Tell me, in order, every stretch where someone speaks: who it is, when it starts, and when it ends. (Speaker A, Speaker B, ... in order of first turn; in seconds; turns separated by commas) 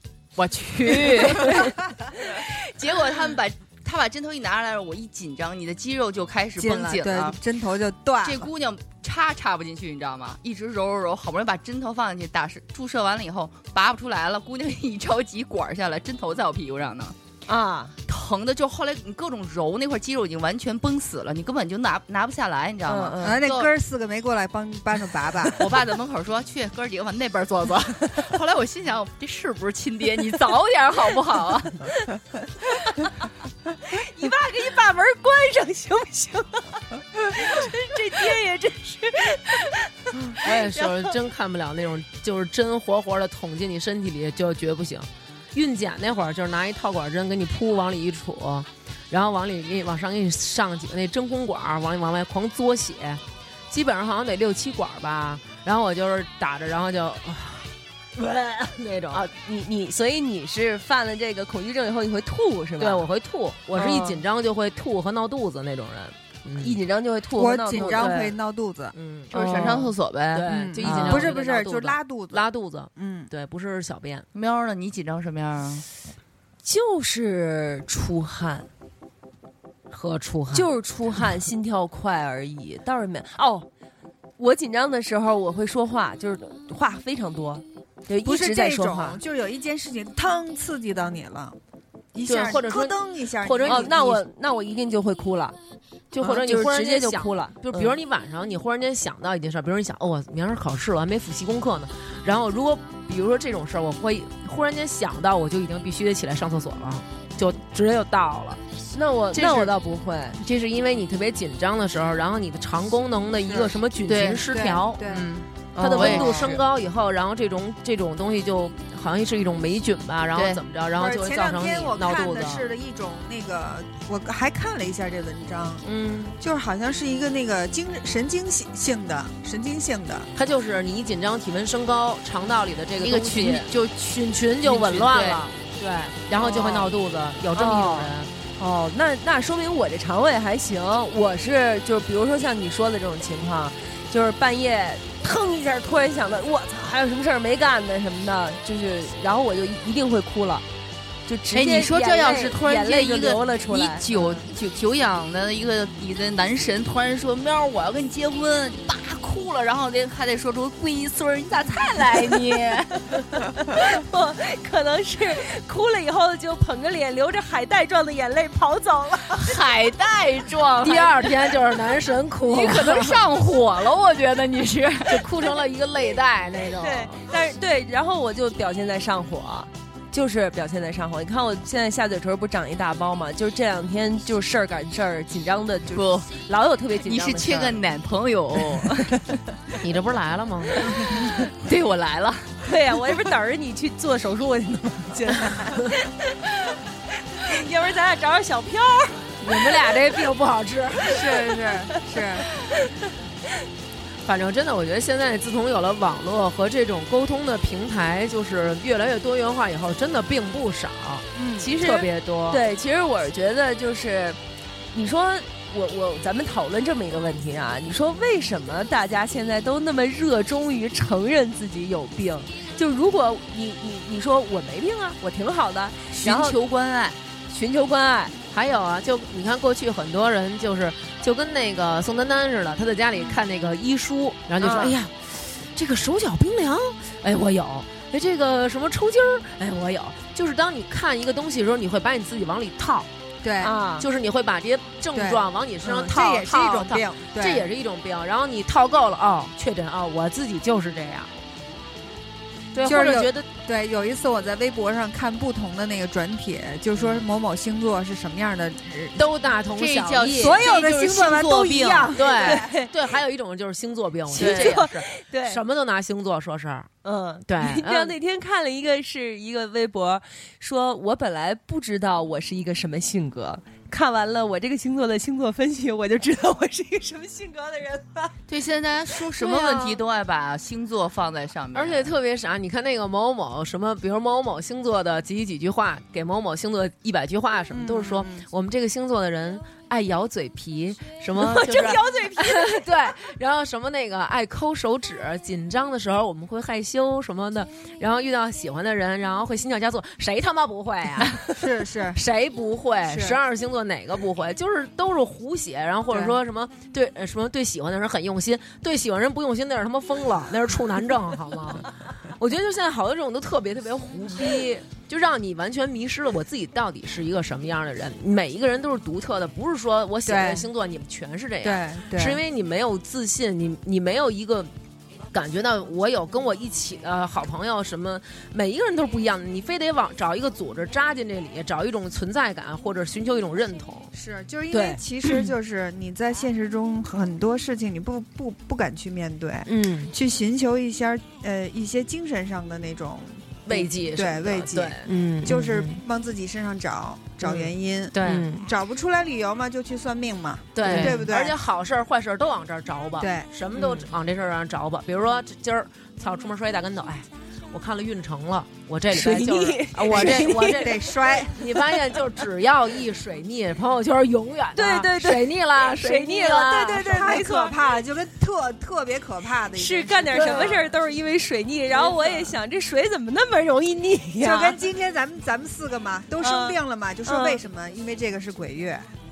Speaker A: 0.4-7.4, Speaker B: 0.9-1.7, Speaker C: 6.6-8.5, Speaker A: 8.2-17.2, Speaker D: 17.5-17.9, Speaker A: 18.1-23.7, Speaker D: 22.9-23.4, Speaker C: 23.2-25.7, Speaker A: 25.6-31.9, Speaker D: 33.8-41.2, Speaker B: 40.3-59.3, Speaker D: 59.1-63.1, Speaker B: 62.8-66.7, Speaker D: 63.8-64.2, Speaker D: 66.6-68.3, Speaker C: 67.4-69.0, Speaker B: 67.8-68.3, Speaker B: 68.9-69.7, Speaker A: 69.3-71.3, Speaker D: 69.3-69.9, Speaker B: 70.3-74.3, Speaker C: 70.5-73.3, Speaker A: 74.3-75.8, Speaker D: 76.6-78.7, Speaker B: 79.9-80.7, Speaker D: 80.5-83.7, Speaker D: 84.4-89.2, Speaker C: 88.2-91.5, Speaker C: 92.1-94.0, Speaker B: 92.3-94.2, Speaker D: 93.6-95.5, Speaker B: 96.1-108.6, Speaker D: 96.2-98.0, Speaker D: 108.9-110.4, Speaker B: 109.3-109.8, Speaker B: 110.4-122.7, Speaker C: 113.5-113.7, Speaker A: 114.1-114.5, Speaker C: 114.5-115.3, Speaker D: 115.7-116.6, Speaker A: 115.9-116.6, Speaker A: 120.3-120.6, Speaker C: 121.0-125.8, Speaker B: 125.8-126.3, Speaker C: 126.4-130.3, Speaker B: 130.3-138.3, Speaker A: 133.0-134.1, Speaker A: 134.6-135.5, Speaker D: 137.6-150.6, Speaker D: 151.3-154.4, Speaker A: 151.5-163.1, Speaker D: 163.6-169.6, Speaker A: 169.3-171.3, Speaker B: 170.8-173.2, Speaker A: 172.5-175.3, Speaker B: 175.1-177.2, Speaker D: 176.8-187.8, Speaker A: 185.9-186.3, Speaker A: 187.0-189.1, Speaker B: 189.8-190.9, Speaker A: 191.1-192.5, Speaker D: 192.6-196.8, Speaker D: 197.4-199.9, Speaker B: 199.4-201.2, Speaker C: 201.1-202.4, Speaker D: 201.3-201.7, Speaker D: 202.4-202.9, Speaker B: 204.3-211.3, Speaker C: 211.3-211.7, Speaker D: 211.6-214.4, Speaker B: 211.8-212.6, Speaker D: 214.9-226.6, Speaker A: 226.1-227.2, Speaker D: 227.5-228.3, Speaker B: 228.5-243.1, Speaker D: 234.6-234.9, Speaker C: 243.4-243.7, Speaker D: 243.6-244.1, Speaker B: 244.0-251.3, Speaker C: 245.1-247.7, Speaker B: 252.7-253.4, Speaker C: 252.8-259.2, Speaker B: 257.0-257.2, Speaker B: 259.1-260.6, Speaker A: 259.8-262.2, Speaker C: 260.4-262.7, Speaker B: 262.1-266.9, Speaker D: 262.4-262.9, Speaker A: 264.3-264.9, Speaker D: 264.3-265.6, Speaker D: 267.0-278.4, Speaker B: 267.4-268.1, Speaker A: 278.5-282.1, Speaker B: 279.3-280.0, Speaker B: 281.7-301.4, Speaker C: 287.7-288.4, Speaker D: 291.3-292.9, Speaker C: 301.5-302.2, Speaker B: 302.1-324.7, Speaker C: 303.1-303.4, Speaker C: 306.1-306.4, Speaker C: 320.3-320.7, Speaker C: 321.6-322.4, Speaker B: 325.3-334.1, Speaker C: 334.1-351.6, Speaker D: 334.7-335.0, Speaker D: 339.7-340.1, Speaker B: 343.7-346.0, Speaker D: 345.1-345.6, Speaker B: 347.4-348.6, Speaker D: 348.2-348.6, Speaker B: 350.7-367.2, Speaker D: 350.9-351.2, Speaker C: 353.2-353.5, Speaker D: 359.1-361.1, Speaker C: 360.1-361.6, Speaker D: 364.8-368.0, Speaker C: 367.0-370.7, Speaker D: 369.8-374.8, Speaker B: 370.3-370.8, Speaker C: 371.9-372.4, Speaker C: 374.4-379.1, Speaker D: 376.4-377.6